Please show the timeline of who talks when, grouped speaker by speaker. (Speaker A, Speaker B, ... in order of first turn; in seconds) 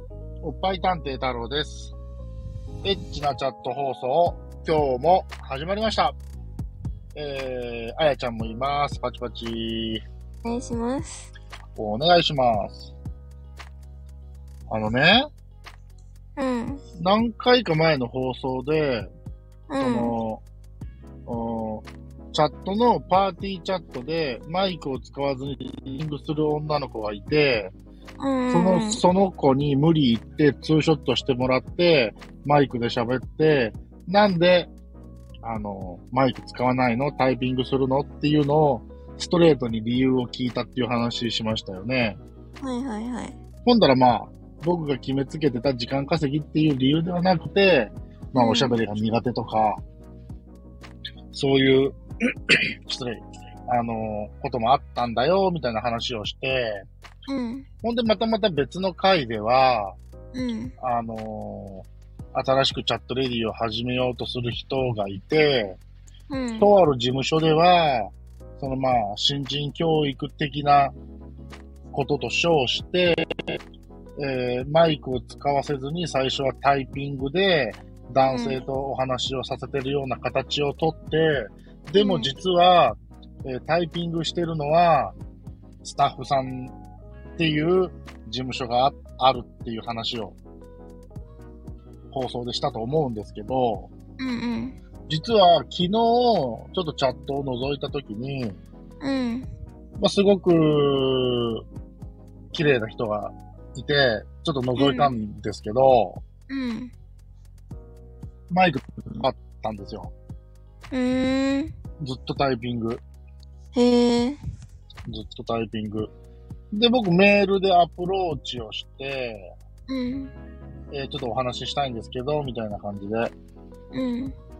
Speaker A: 0.4-1.9, 2.8-6.2, 7.1-10.0, 11.8-12.9, 14.7-15.3, 17.0-19.1, 19.8-20.4, 21.3-27.7, 28.5-34.7, 35.4-42.2, 43.6-49.8, 51.3-52.0, 52.5-56.8, 57.8-60.0, 60.8-65.8, 66.6-70.9, 71.9-73.3, 74.2-85.2, 85.8-86.7, 87.4-90.4, 92.1-93.9, 95.1-98.6, 100.0-101.6, 102.5-106.2, 108.5-110.1, 112.0-113.0, 115.1-116.1, 116.7-119.5, 120.9-123.3
Speaker B: 10.4-11.3, 16.4-16.8, 19.7-20.1, 28.2-29.0, 42.6-43.4, 48.3-48.8, 57.3-57.6, 60.3-60.7, 66.3-66.7, 78.2-78.6, 82.0-82.3, 94.2-94.8, 99.0-99.5, 104.8-105.2, 106.5-106.9, 110.9-111.7, 113.7-114.4, 119.9-120.3, 123.9-124.3